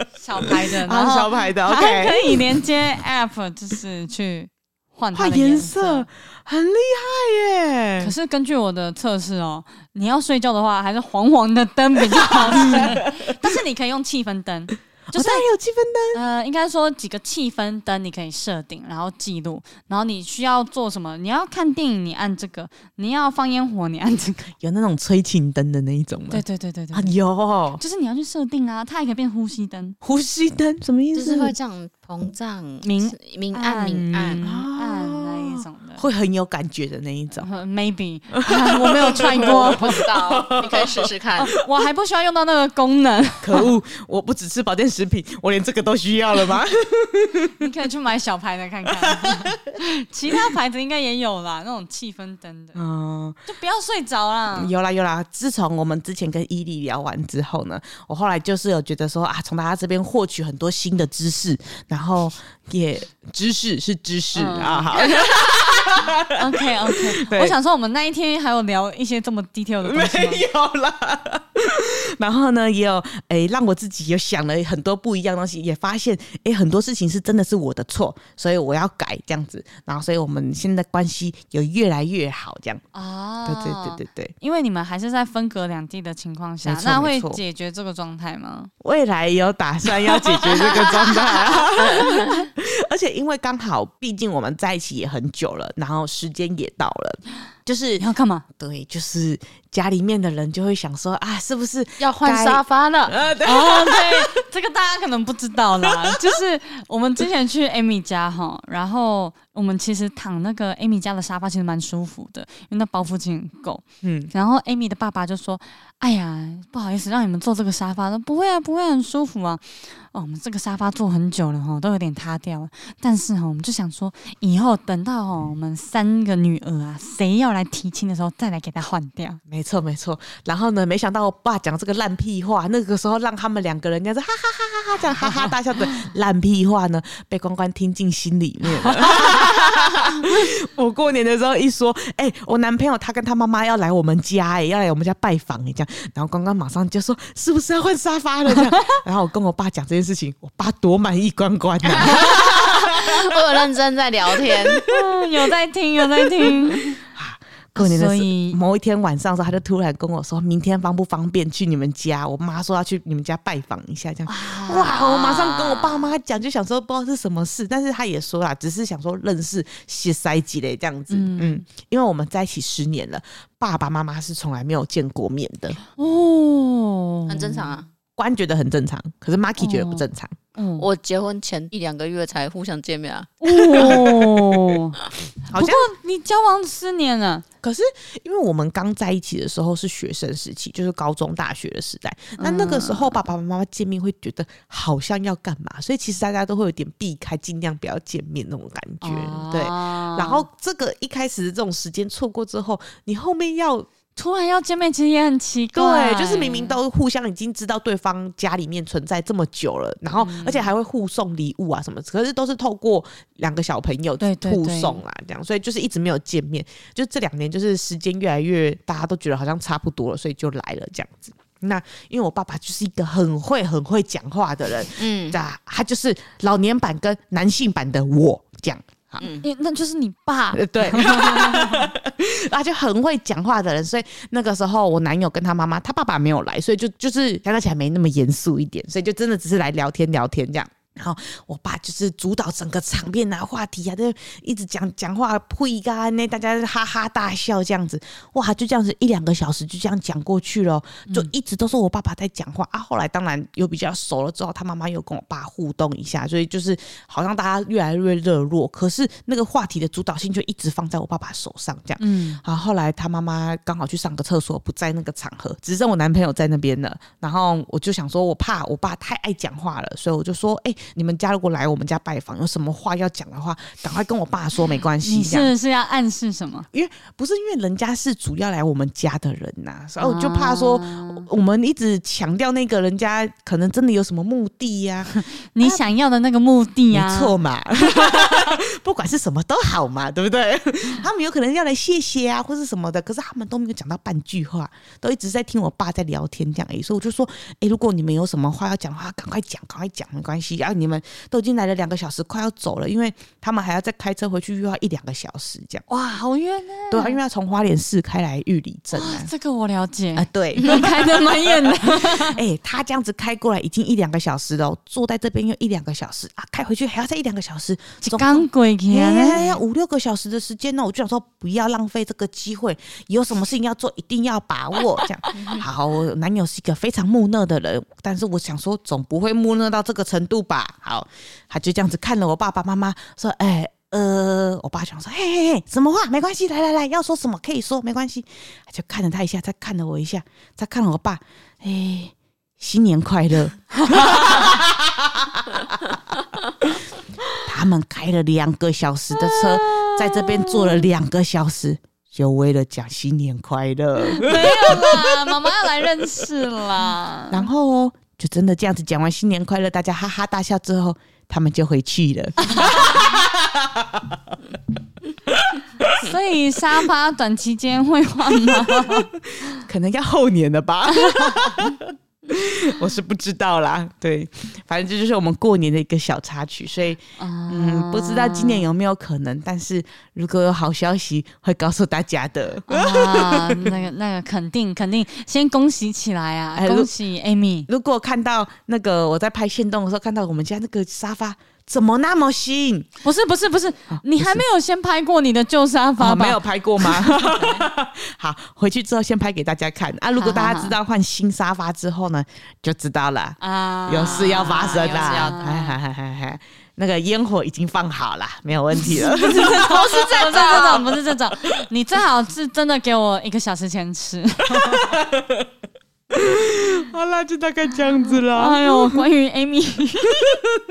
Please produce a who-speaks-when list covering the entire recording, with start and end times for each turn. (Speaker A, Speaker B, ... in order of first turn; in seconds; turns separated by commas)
Speaker A: 0.1-6.1, Speaker B: 0.5-2.4, Speaker B: 5.1-8.1, Speaker A: 8.0-15.4, Speaker B: 12.4-13.3, Speaker B: 15.1-16.2, Speaker A: 16.1-24.5, Speaker B: 24.6-27.8, Speaker A: 26.3-27.2, Speaker A: 27.8-30.0, Speaker B: 30.0-31.5, Speaker C: 31.1-34.4, Speaker A: 32.8-36.0, Speaker B: 34.4-37.5, Speaker A: 37.3-40.1, Speaker B: 38.4-41.1, Speaker C: 39.1-41.5, Speaker A: 41.4-43.7, Speaker B: 43.4-47.5, Speaker A: 47.6-52.8, Speaker B: 48.9-49.5, Speaker B: 52.7-53.4, Speaker A: 53.5-54.7, Speaker B: 54.5-66.3, Speaker A: 64.3-65.0, Speaker A: 66.3-70.4, Speaker B: 66.9-67.5, Speaker B: 69.8-82.8, Speaker A: 82.9-88.7, Speaker B: 83.4-84.3, Speaker B: 86.6-87.4, Speaker B: 88.8-104.4, Speaker C: 91.8-92.5, Speaker A: 98.0-98.4, Speaker C: 102.0-103.1, Speaker A: 103.4-129.4, Speaker B: 105.9-106.1, Speaker B: 114.0-114.3, Speaker B: 129.5-153.3, Speaker A: 135.2-135.5, Speaker C: 151.9-154.8, Speaker A: 154.7-157.0, Speaker B: 157.1-175.8, Speaker A: 157.8-158.6, Speaker A: 164.3-166.1, Speaker A: 171.1-171.6, Speaker A: 175.9-177.8, Speaker C: 177.3-177.8, Speaker B: 178.2-180.3, Speaker A: 179.6-180.0, Speaker A: 180.6-180.9, Speaker C: 180.8-184.2, Speaker A: 183.4-185.0, Speaker B: 185.5-185.9, Speaker A: 185.5-187.4, Speaker B: 187.6-203.9, Speaker A: 192.4-193.2, Speaker A: 199.0-200.4, Speaker A: 204.2-206.8, Speaker B: 205.7-229.2, Speaker A: 210.2-210.7, Speaker A: 214.2-215.0, Speaker C: 225.0-225.4, Speaker C: 229.2-229.4, Speaker A: 229.4-231.8, Speaker B: 230.5-275.5, Speaker A: 262.0-262.4, Speaker A: 275.0-276.7, Speaker B: 276.7-285.8, Speaker A: 280.0-281.2, Speaker A: 285.4-288.4, Speaker B: 286.9-305.8, Speaker A: 305.9-307.2, Speaker B: 306.9-309.3, Speaker A: 308.9-312.4, Speaker B: 310.1-345.8, Speaker C: 310.6-310.8, Speaker A: 318.0-319.6, Speaker B: 347.4-355.1, Speaker A: 349.3-350.9, Speaker A: 354.1-357.5, Speaker B: 357.3-364.0, Speaker A: 362.5-362.8, Speaker B: 365.3-365.9, Speaker A: 365.9-369.1, Speaker B: 368.4-383.7, Speaker A: 370.9-371.5, Speaker A: 377.2-378.7, Speaker A: 382.7-387.7, Speaker B: 386.6-386.9, Speaker B: 387.7-392.9, Speaker A: 393.0-397.6, Speaker B: 393.9-394.4, Speaker B: 396.0-410.9, Speaker A: 400.2-400.8, Speaker A: 403.4-405.8, Speaker C: 404.8-405.3, Speaker A: 408.8-414.9, Speaker C: 409.4-410.9, Speaker B: 414.6-415.4, Speaker B: 416.1-419.0, Speaker A: 418.3-420.4